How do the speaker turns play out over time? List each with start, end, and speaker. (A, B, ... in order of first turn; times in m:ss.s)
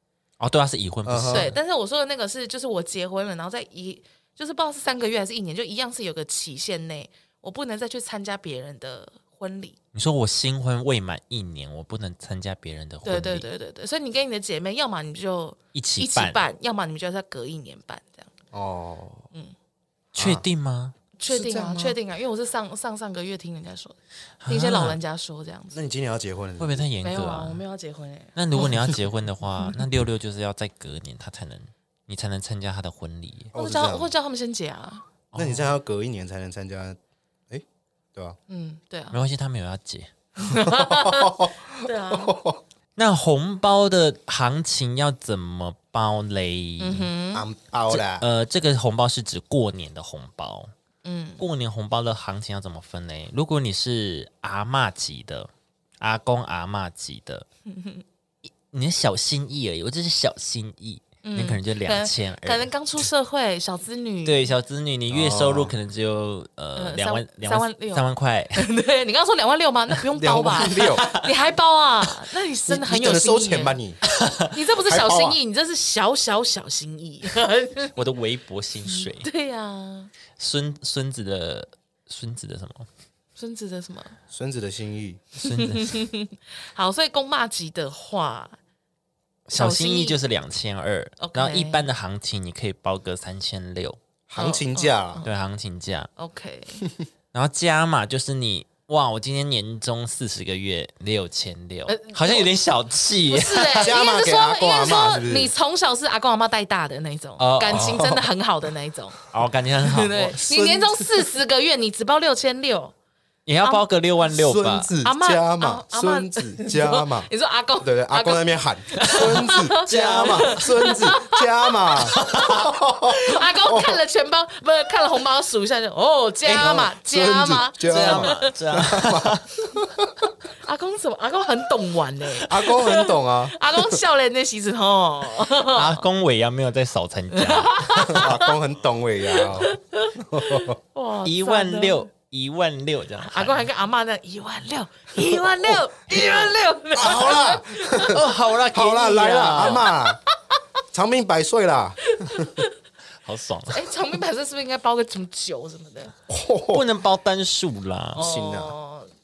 0:00.4-0:01.6 A
0:01.0-0:01.5 B
0:01.3-0:09.8 C
0:09.9-0:13.5 A
0:13.0-0:18.3 C
0:15.7-0:16.4 A
0:18.5-0:19.2 B
0:20.1-0:20.4 B
0:20.1-0:20.9 A
0:21.2-0:24.0 C
0:21.3-0:22.0 B
0:24.4-0:25.0 A
0:24.5-0:25.8 C
0:25.7-0:26.8 B
0:26.6-0:27.6 A
0:27.0-0:28.8 C
0:28.4-0:33.5 A
0:33.5-0:34.1 B
0:33.5-0:35.1 C
0:35.3-0:35.7 A
0:35.3-0:37.0 B
0:37.5-0:38.4 B
0:38.5-0:39.2 C
0:39.1-0:40.1 A
0:40.4-0:42.3 C
0:40.6-0:42.6 B
0:43.0-0:47.1 A
0:46.8-0:47.4 C
0:47.3-0:48.2 B
0:47.9-0:50.7 A
0:51.0-0:51.4 C
0:51.4-0:55.5 A
0:56.0-0:57.4 A
0:57.7-0:58.0 C
0:58.5-1:02.7 A
1:01.2-1:04.5 C
1:04.2-1:08.6 A
1:05.1-1:05.7 B
1:06.8-1:13.8 C
1:10.1-1:11.0 B
1:10.8-1:11.3 A
1:12.7-1:14.0 B
1:14.0-1:14.5 A
1:14.5-1:18.0 C
1:14.8-1:15.4 B
1:17.9-1:19.3 A
1:18.8-1:20.1 C
1:20.4-1:22.9 A
1:23.4-1:24.2 C
1:24.3-1:25.2 B
1:25.4-1:26.0 A
1:25.4-1:28.6 C
1:29.5-1:34.0 A
1:29.5-1:30.2 C
1:31.2-1:31.8 C
1:34.3-1:35.2 B
1:34.4-1:35.3 C
1:35.2-1:36.1 A
1:36.2-1:36.8 C
1:37.3-1:43.9 A
1:41.9-1:42.5 C
1:43.3-1:49.2 C
1:43.8-1:45.5 B
1:47.4-1:48.2 A
1:49.3-1:50.4 A
1:49.8-1:52.9 C
1:50.2-1:51.1 B
1:53.4-1:54.9 A
1:54.3-2:04.0 B
1:55.0-2:08.5 C
1:59.0-2:00.7 A
2:02.1-2:02.6 A
2:06.4-2:06.9 A
2:06.6-2:10.3 B
2:07.8-2:09.5 A
2:10.6-2:16.0 C
2:12.4-2:14.0 B
2:15.6-2:18.2 A
2:17.3-2:18.5 C
2:18.1-2:20.8 B
2:19.3-2:22.1 C
2:21.2-2:23.6 A
2:23.2-2:28.3 C
2:26.1-2:26.5 A
2:27.0-2:30.2 B
2:28.0-2:29.9 A
2:30.9-2:32.5 B
2:32.0-2:32.7 C
2:33.2-2:33.9 A
2:33.7-2:36.1 C
2:36.3-2:36.8 B
2:36.7-2:38.2 A
2:38.2-2:38.7 B
2:38.2-2:39.1 C